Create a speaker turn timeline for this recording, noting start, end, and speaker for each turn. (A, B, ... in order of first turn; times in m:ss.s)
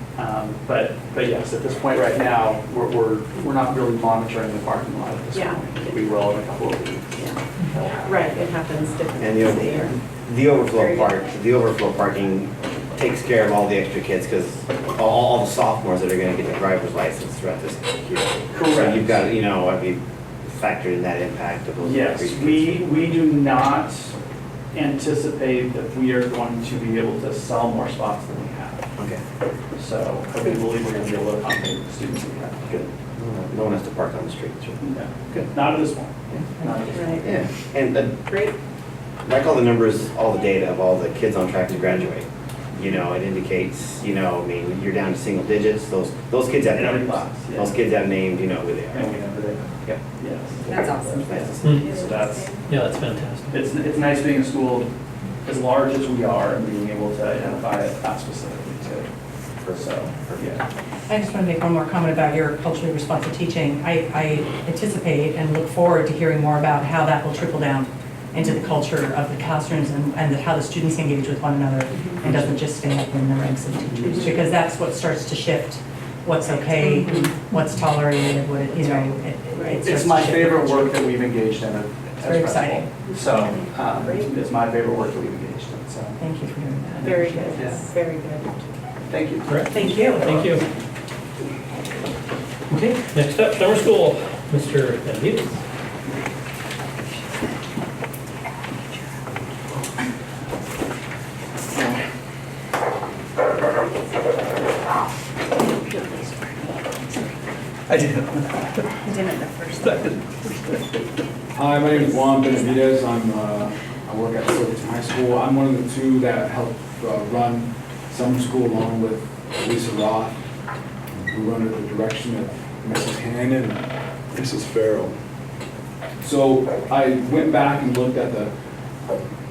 0:00.2-0:08.5 A
0:05.3-0:05.7 B
0:08.0-0:10.0 B
0:09.2-0:22.8 C
0:10.6-0:11.2 B
0:18.5-0:19.2 A
0:21.8-0:24.1 A
0:24.7-0:28.9 A
0:29.8-0:32.9 A
0:33.2-0:34.8 C
0:34.8-0:37.3 A
0:36.9-0:37.2 B
0:37.2-0:38.2 C
0:38.3-0:38.5 B
0:39.2-0:49.1 C
0:46.8-0:47.8 A
0:48.9-0:52.6 A
0:50.6-0:51.6 C
0:50.7-0:51.1 B
0:51.6-0:52.0 D
0:51.6-0:52.6 B
0:52.7-0:53.6 D
0:53.5-0:54.9 A
0:55.4-0:59.1 A
0:59.7-1:00.6 A
1:01.1-1:20.9 E
1:11.9-1:12.2 B
1:14.0-1:14.4 A
1:14.0-1:14.3 B
1:16.7-1:17.3 B
1:19.8-1:26.2 A
1:22.2-1:22.9 E
1:23.1-1:24.3 B
1:26.2-1:27.7 E
1:27.0-1:28.7 B
1:29.1-1:29.5 A
1:29.5-1:30.6 D
1:29.7-1:30.4 B
1:32.7-1:35.6 D
1:47.9-1:48.6 A
1:49.0-1:50.0 B
1:51.5-2:00.3 F
2:01.1-2:05.1 F
2:06.2-2:08.5 F